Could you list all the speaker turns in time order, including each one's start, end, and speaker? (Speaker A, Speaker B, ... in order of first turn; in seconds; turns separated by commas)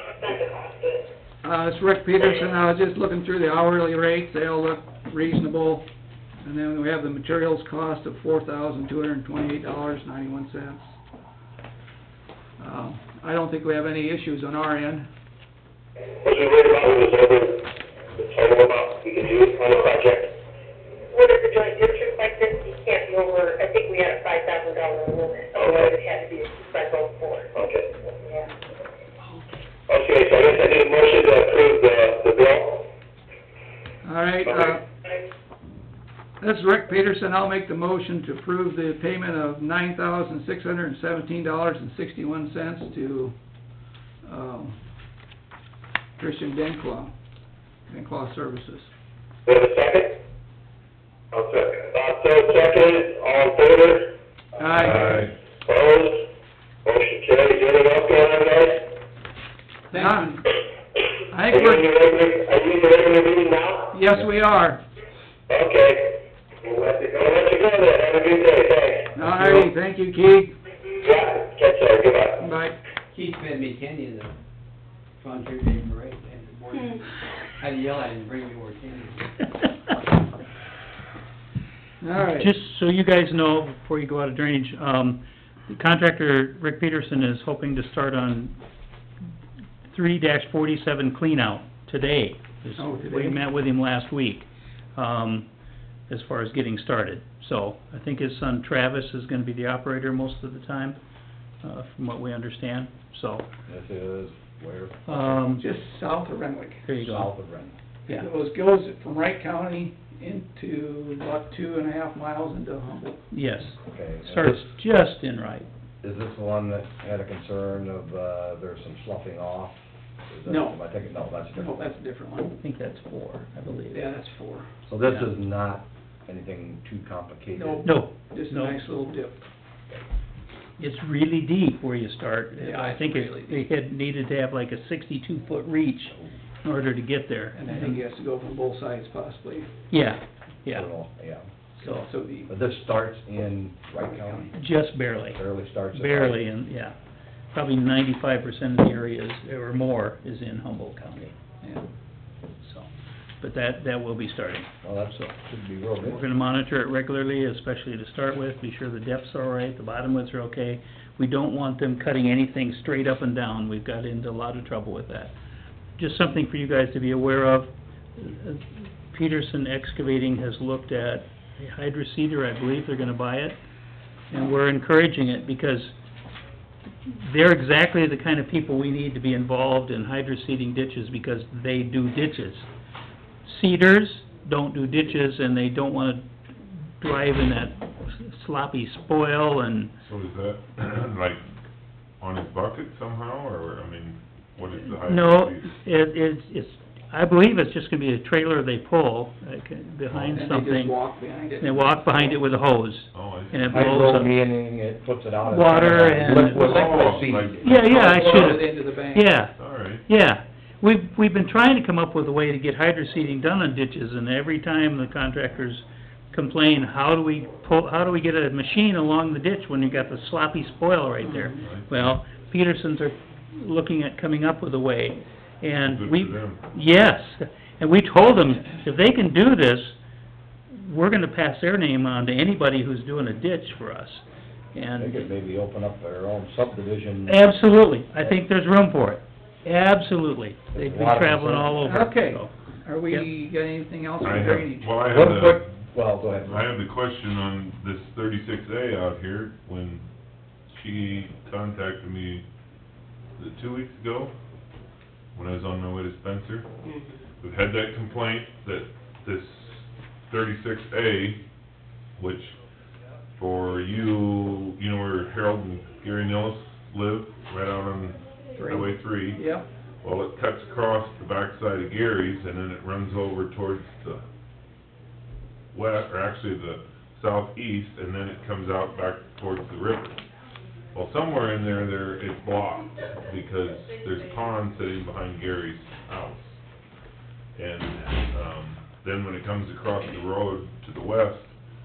Speaker A: 0.2-1.0, Speaker B: 1.4-5.9, Speaker B: 6.4-10.8, Speaker B: 12.6-15.1, Speaker C: 16.2-20.3, Speaker A: 21.1-27.5, Speaker C: 25.5-25.9, Speaker C: 27.5-27.9, Speaker A: 28.0-28.5, Speaker C: 29.9-32.9, Speaker B: 34.0-34.8, Speaker C: 34.5-34.8, Speaker B: 36.4-43.3, Speaker B: 44.2-44.8, Speaker B: 46.2-47.1, Speaker B: 47.9-48.9, Speaker C: 49.5-50.2, Speaker C: 51.3-54.1, Speaker B: 54.6-55.3, Speaker C: 54.9-56.3, Speaker D: 55.0-55.3, Speaker C: 56.8-58.9, Speaker B: 59.9-60.4, Speaker B: 61.3-61.8, Speaker C: 61.5-64.0, Speaker B: 63.9-64.8, Speaker C: 65.5-69.2, Speaker B: 69.1-70.5, Speaker C: 71.0-72.4, Speaker B: 72.4-72.8, Speaker E: 73.1-74.3, Speaker E: 75.2-77.0, Speaker E: 77.6-79.3, Speaker B: 82.0-82.5, Speaker F: 82.2-88.5, Speaker F: 89.9-95.5, Speaker B: 92.8-93.4, Speaker F: 96.1-101.0, Speaker F: 101.6-103.4, Speaker G: 103.7-105.4, Speaker F: 105.1-105.6, Speaker B: 105.6-106.9, Speaker F: 106.8-107.3, Speaker G: 106.9-107.8, Speaker B: 108.1-113.2, Speaker F: 113.3-115.7, Speaker G: 113.8-114.7, Speaker G: 116.0-121.8, Speaker B: 120.5-120.8, Speaker B: 121.5-122.5, Speaker F: 122.6-124.0, Speaker B: 123.9-124.7, Speaker G: 124.9-127.9, Speaker B: 127.5-129.4, Speaker F: 127.8-128.8, Speaker F: 130.8-138.0, Speaker B: 132.6-133.7, Speaker B: 137.5-139.7, Speaker F: 139.9-140.9, Speaker G: 140.7-141.5, Speaker B: 141.8-142.5, Speaker G: 142.5-144.5, Speaker B: 144.1-144.5, Speaker F: 144.5-145.4, Speaker G: 145.3-146.4, Speaker F: 145.9-146.9, Speaker F: 147.5-151.3, Speaker B: 151.6-151.9, Speaker F: 152.6-152.9, Speaker F: 153.4-154.7, Speaker G: 154.8-156.2, Speaker F: 156.0-165.3, Speaker F: 166.0-173.6, Speaker F: 174.3-175.9, Speaker F: 177.0-182.7, Speaker F: 183.4-186.2, Speaker F: 187.0-189.9, Speaker D: 190.0-191.4, Speaker D: 192.2-195.7, Speaker F: 194.9-201.0, Speaker B: 200.2-202.4, Speaker F: 201.6-204.3, Speaker D: 203.1-203.9, Speaker G: 203.7-207.8, Speaker F: 205.4-209.5, Speaker D: 206.3-208.3, Speaker B: 207.8-209.3, Speaker D: 209.6-210.0, Speaker F: 210.1-229.9, Speaker B: 221.2-221.6, Speaker D: 221.6-222.0, Speaker D: 225.9-226.6, Speaker F: 230.7-235.3, Speaker G: 235.0-237.6, Speaker F: 237.3-242.5, Speaker G: 240.7-241.9, Speaker B: 241.8-245.0, Speaker D: 244.2-245.6, Speaker G: 245.1-246.7, Speaker D: 246.4-250.0, Speaker D: 250.7-252.4, Speaker D: 253.4-254.3, Speaker D: 255.3-256.7, Speaker D: 257.4-261.4, Speaker D: 262.1-262.6, Speaker D: 263.4-269.5, Speaker B: 268.6-269.6, Speaker D: 270.0-274.2, Speaker D: 275.7-280.2, Speaker D: 280.9-286.6, Speaker D: 287.6-291.5